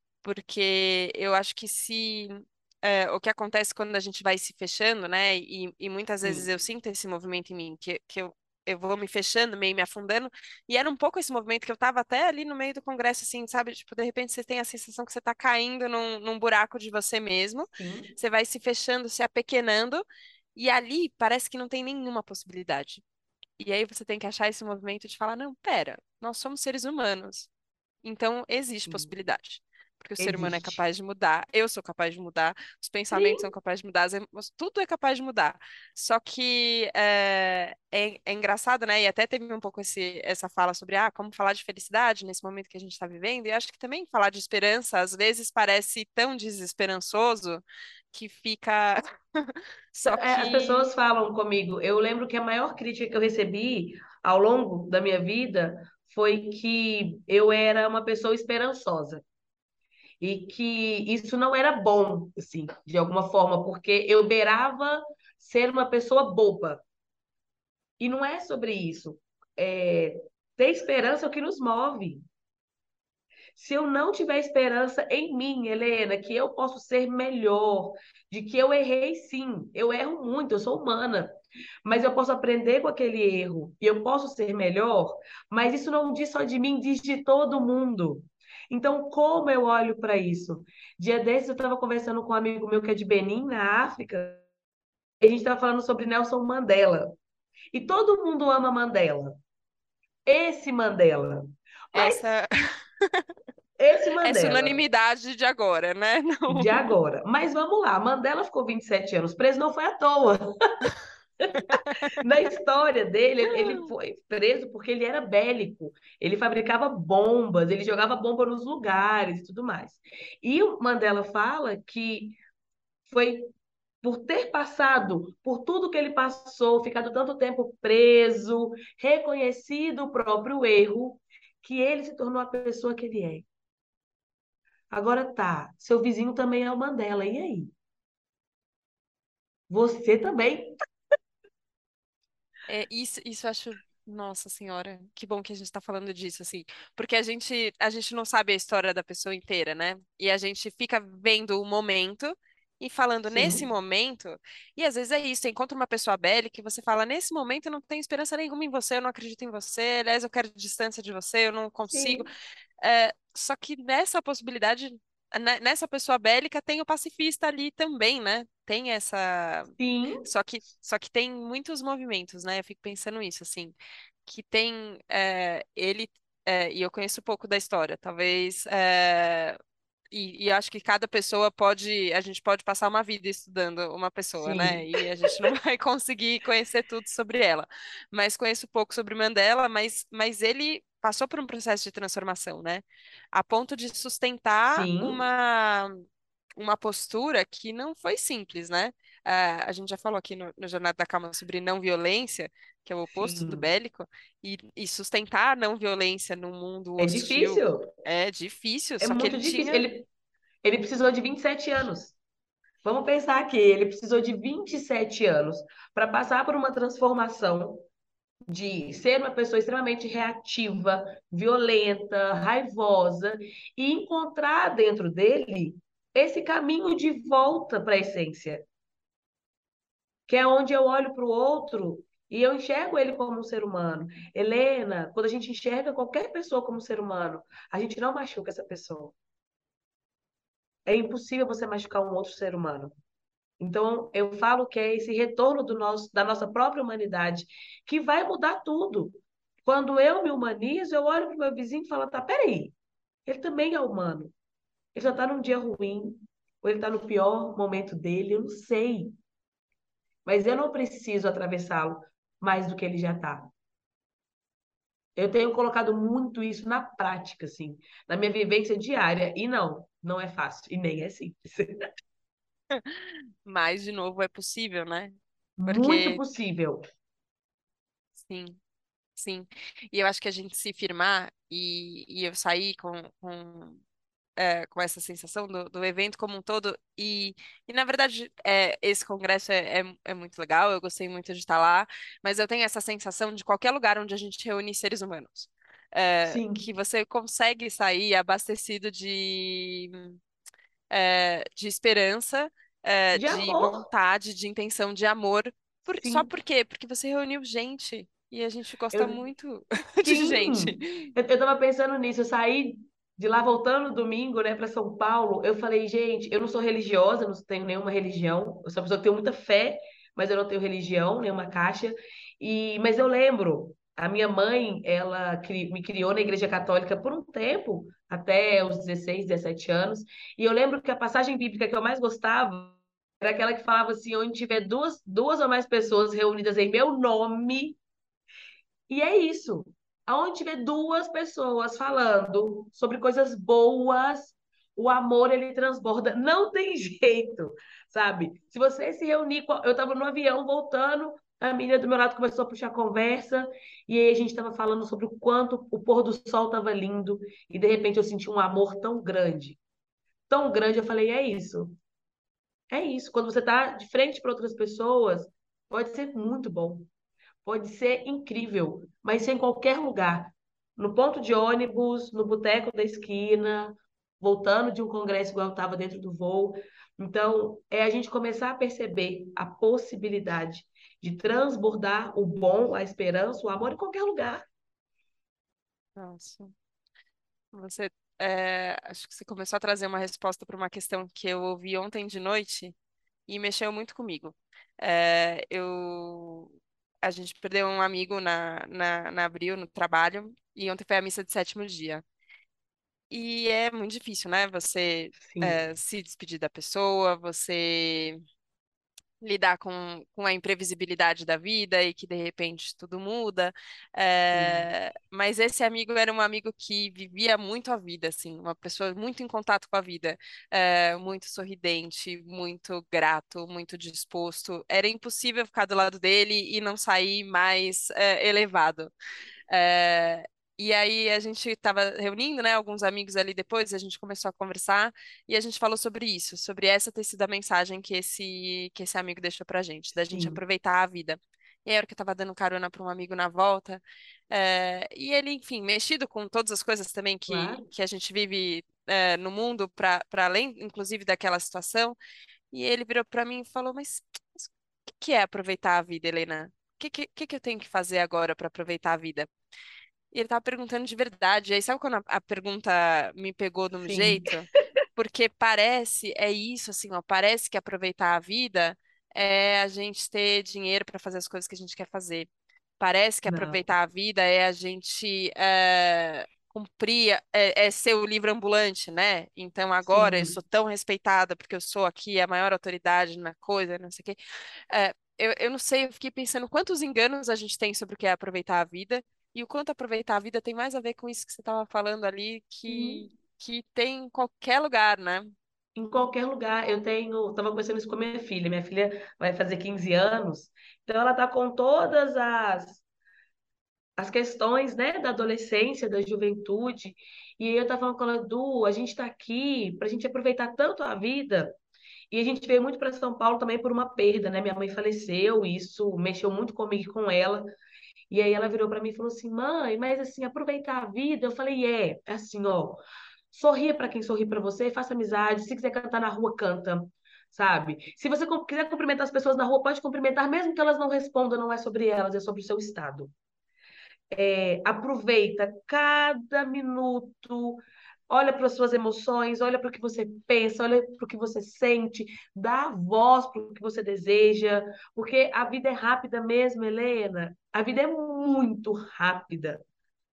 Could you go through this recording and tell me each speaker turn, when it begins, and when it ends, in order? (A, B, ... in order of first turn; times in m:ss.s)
0:00.2-0:20.0 A
0:17.8-0:18.1 B
0:20.6-0:23.0 A
0:23.6-0:27.5 A
0:28.0-0:50.9 A
0:28.8-0:29.1 B
0:30.2-0:30.8 B
0:33.1-0:33.5 B
0:50.0-0:59.2 B
1:00.2-1:06.8 B
1:08.0-1:12.2 B
1:13.5-1:21.3 B
1:21.8-1:34.4 B
1:35.2-1:37.1 B
1:37.7-1:39.4 B
1:40.2-1:42.2 B
1:41.9-1:42.5 A
1:43.8-1:44.8 B
1:44.2-1:46.9 A
1:46.5-1:50.4 B
1:51.4-2:02.4 B
1:51.8-1:52.2 A
2:03.1-2:03.5 B
2:04.0-2:13.4 B
2:14.9-2:17.7 B
2:19.7-2:20.7 B
2:22.7-2:42.3 A
2:33.3-2:33.7 B
2:41.9-2:42.3 B
2:42.8-2:49.7 A
2:49.8-2:50.2 B
2:50.2-2:59.6 A
3:00.1-3:16.0 A
3:04.4-3:05.3 B
3:14.7-3:15.2 B
3:16.6-3:29.9 A
3:23.1-3:23.7 B
3:27.0-3:27.9 B
3:29.0-3:30.1 B
3:30.6-3:32.2 B
3:32.8-3:37.8 B
3:38.5-3:48.6 B
3:50.3-3:59.1 B
4:00.9-4:02.9 B
4:03.6-4:12.7 B
4:13.3-4:14.3 B
4:14.9-4:19.1 B
4:20.2-4:23.5 B
4:25.2-4:31.8 B
4:32.7-4:35.1 A
4:35.6-4:36.8 B
4:35.7-4:36.2 A
4:38.2-4:38.6 A
4:39.2-4:43.8 A
4:44.4-5:00.2 A
4:56.2-4:56.7 B
5:00.9-5:11.1 A
5:03.1-5:03.9 B
5:05.9-5:06.3 B
5:08.9-5:09.2 B
5:10.0-5:37.8 B
5:38.9-5:59.6 B
6:00.3-6:01.7 B
6:02.7-6:06.9 B
6:07.4-6:24.4 B
6:26.0-6:26.5 A
6:27.5-6:32.8 A
6:33.3-6:42.0 A
6:43.1-6:48.2 A
6:45.2-6:45.7 B
6:49.2-7:08.9 A
6:54.3-6:54.7 B
7:09.5-7:32.0 A
7:20.1-7:20.4 B
7:27.3-7:27.7 B
7:32.5-7:39.3 A
7:40.1-8:04.2 A
7:43.8-7:44.3 B
7:53.2-7:53.6 B
7:59.9-8:00.4 B
8:04.7-8:15.3 A
8:12.7-8:13.0 B
8:15.7-8:22.8 B
8:24.0-8:31.5 B
8:32.1-8:37.4 B
8:38.1-8:42.8 B
8:43.3-8:53.1 B
8:54.1-9:09.6 B